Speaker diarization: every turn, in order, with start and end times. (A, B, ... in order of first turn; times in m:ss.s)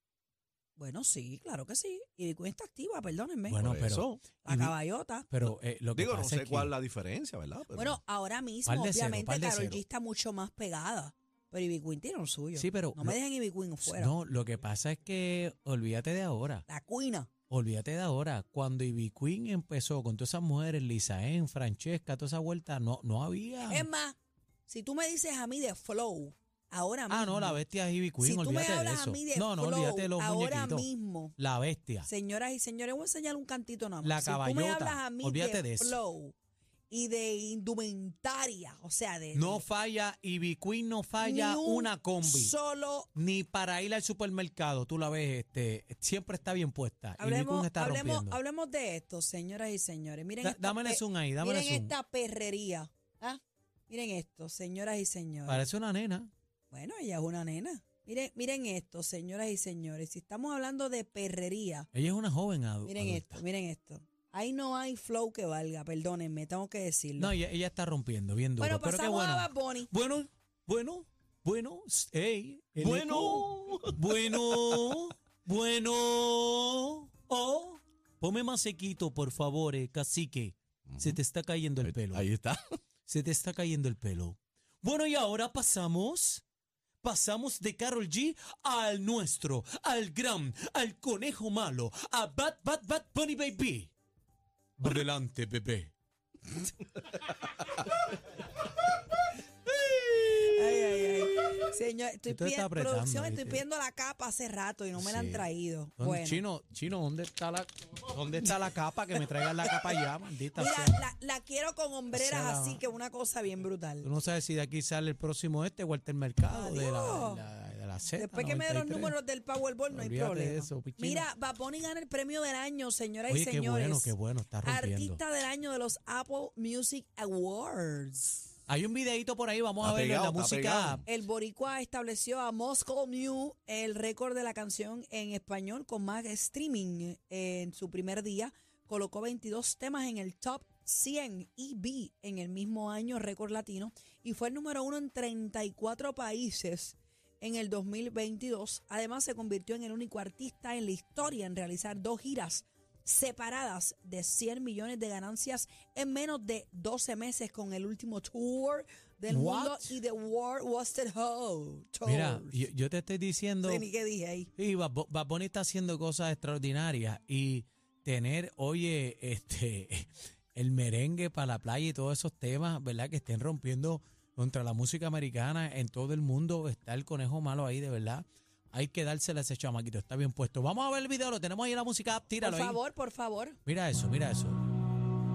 0:00.8-0:03.6 A
0:03.5-0:06.7 B
0:03.6-0:04.2 C
0:04.4-0:05.3 A
0:05.9-0:08.0 C
0:07.7-0:14.1 A
0:08.7-0:09.8 B
0:12.5-0:13.2 B
0:13.8-0:16.6 B
0:16.7-0:17.3 A
0:17.5-0:23.9 B
0:23.7-0:27.6 A
0:27.1-0:32.1 B
0:28.2-0:31.4 A
0:32.0-0:36.3 A
0:34.0-0:36.0 B
0:36.9-0:39.6 A
0:39.3-0:42.5 B
0:41.2-0:43.1 A
0:43.1-0:48.4 B
0:47.2-0:55.7 A
0:50.4-0:51.9 B
0:55.4-0:56.3 B
0:56.7-1:01.9 A
1:01.9-1:03.4 B
1:02.8-1:07.3 A
1:07.2-1:22.3 B
1:08.6-1:09.9 A
1:12.8-1:14.8 C
1:20.9-1:21.2 C
1:21.8-1:22.8 C
1:23.1-1:26.4 B
1:27.0-1:33.9 B
1:34.8-1:35.9 B
1:40.0-1:40.2 B
1:40.4-1:46.4 A
1:42.2-1:43.6 B
1:45.0-1:51.0 B
1:50.5-1:54.1 A
1:52.1-1:52.8 B
1:54.0-1:59.2 B
1:56.5-1:57.4 A
1:58.2-2:04.1 A
1:59.9-2:01.3 B
2:03.3-2:05.2 B
2:04.6-2:08.4 A
2:08.7-2:11.0 B
2:09.8-2:11.0 C
2:11.0-2:42.6 A
2:39.3-2:40.0 B
2:42.0-2:43.8 B
2:43.6-2:44.5 A
2:44.6-3:02.8 B
3:02.4-3:03.6 A
3:03.7-3:04.6 B